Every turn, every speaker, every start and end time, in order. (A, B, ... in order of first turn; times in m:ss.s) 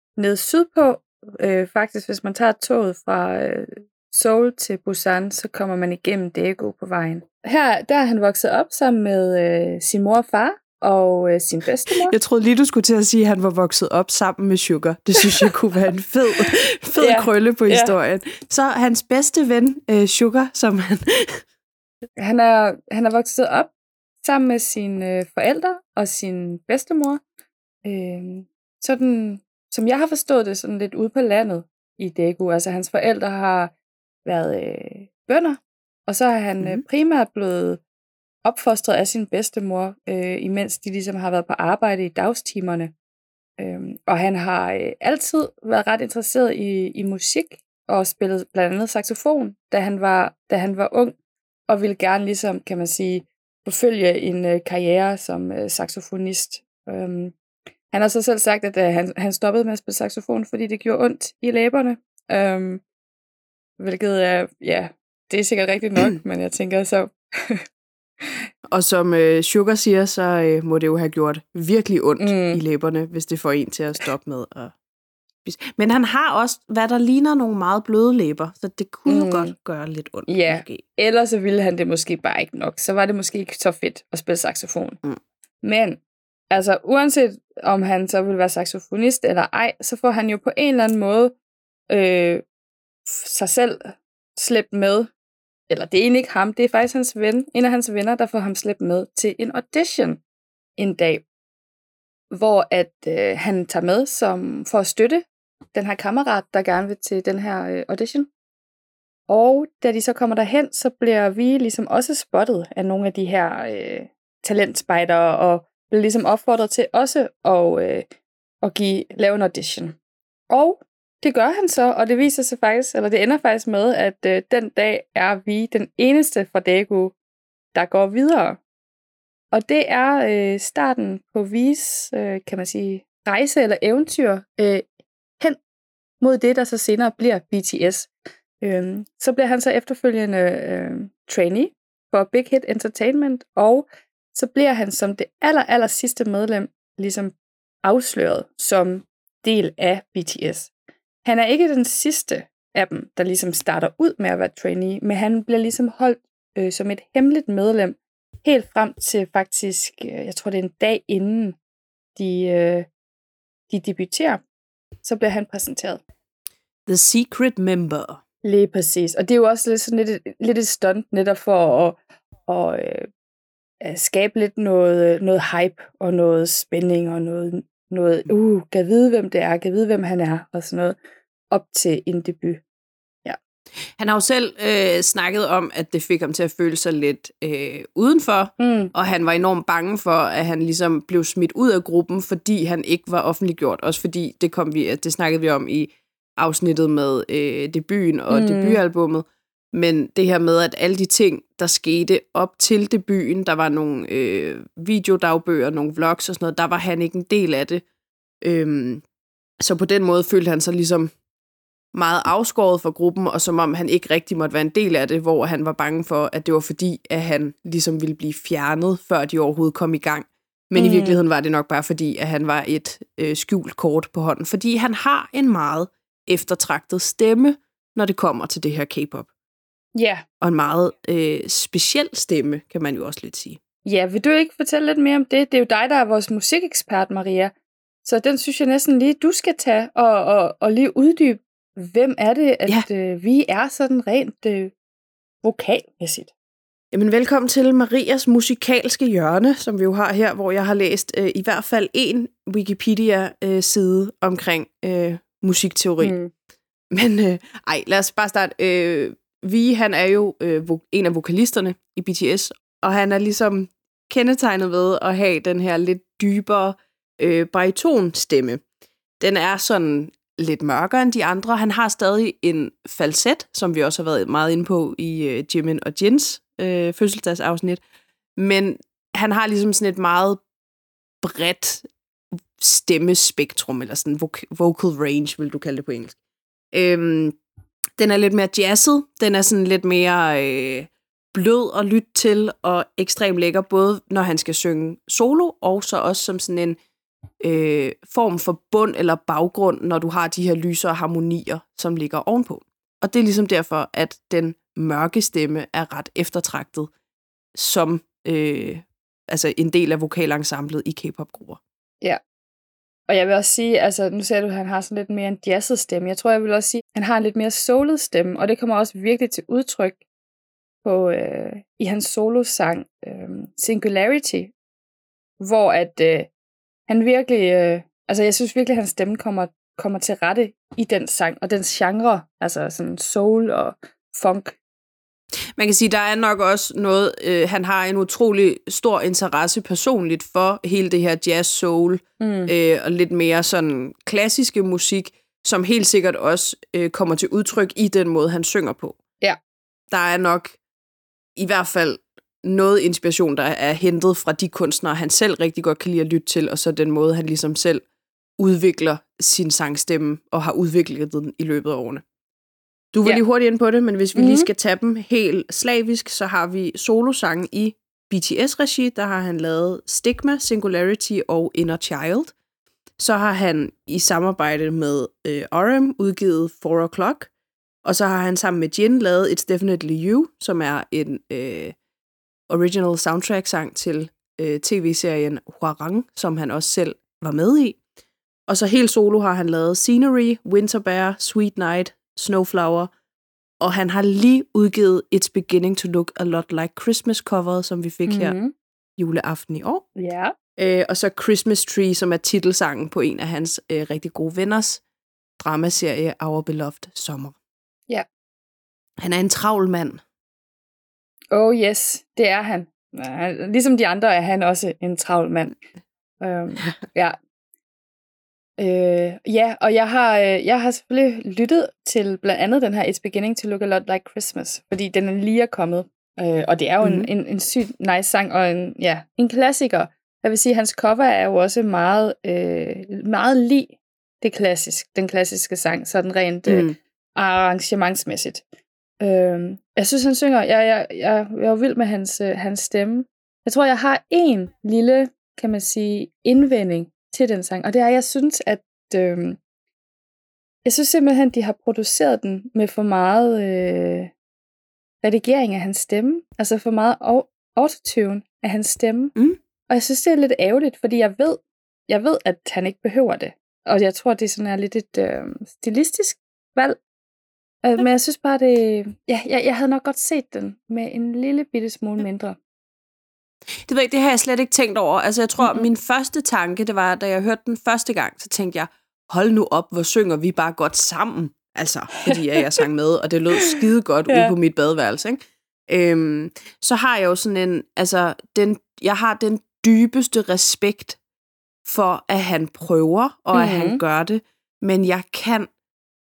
0:00.2-0:12.2 A
0:11.9-0:21.4 B
0:17.0-0:17.9 A
0:22.2-0:27.2 A
0:27.8-0:33.7 A
0:34.2-0:37.8 A
0:38.4-0:42.9 A
0:43.6-0:51.2 A
0:51.7-0:57.3 A
0:57.9-1:02.8 A
1:03.8-1:07.6 A
1:08.7-1:14.7 B
1:12.2-1:12.6 A
1:15.4-1:20.8 B
1:19.1-1:19.5 A
1:20.3-1:25.0 A
1:25.6-1:26.0 A
1:26.5-1:31.3 A
1:31.9-1:32.4 A
1:33.0-1:35.1 A
1:35.7-1:40.2 A
1:40.8-1:41.2 A
1:42.3-1:48.3 A
1:49.3-1:58.1 A
1:58.6-2:00.0 A
2:00.5-2:07.1 A
2:07.7-2:08.6 A
2:09.5-2:14.9 A
2:16.2-2:30.7 A
2:31.2-2:41.6 A
2:42.2-2:42.9 A
2:43.7-2:44.4 A
2:45.0-2:46.0 A
2:46.9-2:48.2 B
2:48.4-2:53.1 A
2:53.8-3:01.0 A
3:01.5-3:02.6 A
3:04.0-3:27.8 B
3:08.6-3:08.9 A
3:18.3-3:18.8 A
3:28.4-3:29.0 B
3:29.6-3:31.1 B
3:31.9-3:49.3 B
3:40.8-3:41.2 A
3:49.9-3:50.2 A
3:50.4-3:53.6 B
3:53.8-3:57.5 A
3:58.0-4:04.7 A
4:05.4-4:06.3 A
4:06.9-4:16.1 B
4:16.0-4:16.3 A
4:16.9-4:28.6 B
4:29.2-4:37.8 B
4:38.4-4:40.4 B
4:41.2-4:41.9 B
4:42.6-4:46.2 B
4:46.7-4:47.4 B
4:48.0-4:56.8 B
4:57.4-5:06.9 B
5:07.5-5:11.6 B
5:13.1-5:20.0 A
5:20.8-5:24.5 A
5:25.4-5:26.3 A
5:26.9-5:34.6 A
5:35.6-5:49.0 B
5:42.2-5:42.5 A
5:49.9-5:50.6 B
5:51.4-5:57.8 B
5:58.4-6:02.0 B
6:02.9-6:12.3 B
6:04.1-6:04.5 A
6:13.0-6:17.3 B
6:17.8-6:21.8 B
6:22.5-6:27.8 B
6:28.5-6:32.9 B
6:33.6-6:38.4 B
6:38.1-6:38.5 A
6:39.0-6:39.8 B
6:40.0-6:40.3 A
6:40.6-6:44.8 B
6:45.4-6:47.4 B
6:49.0-6:50.0 B
6:51.3-6:55.6 A
6:56.2-6:57.1 A
6:58.6-7:18.4 A
7:06.8-7:07.1 B
7:16.5-7:16.8 B
7:19.0-7:29.4 A
7:30.6-7:34.1 A
7:35.0-7:39.1 A
7:39.7-7:46.8 A
7:47.6-7:52.4 A
7:53.6-8:11.0 B
7:55.4-7:55.7 A
8:04.1-8:04.3 A
8:11.6-8:15.5 B
8:13.3-8:13.8 A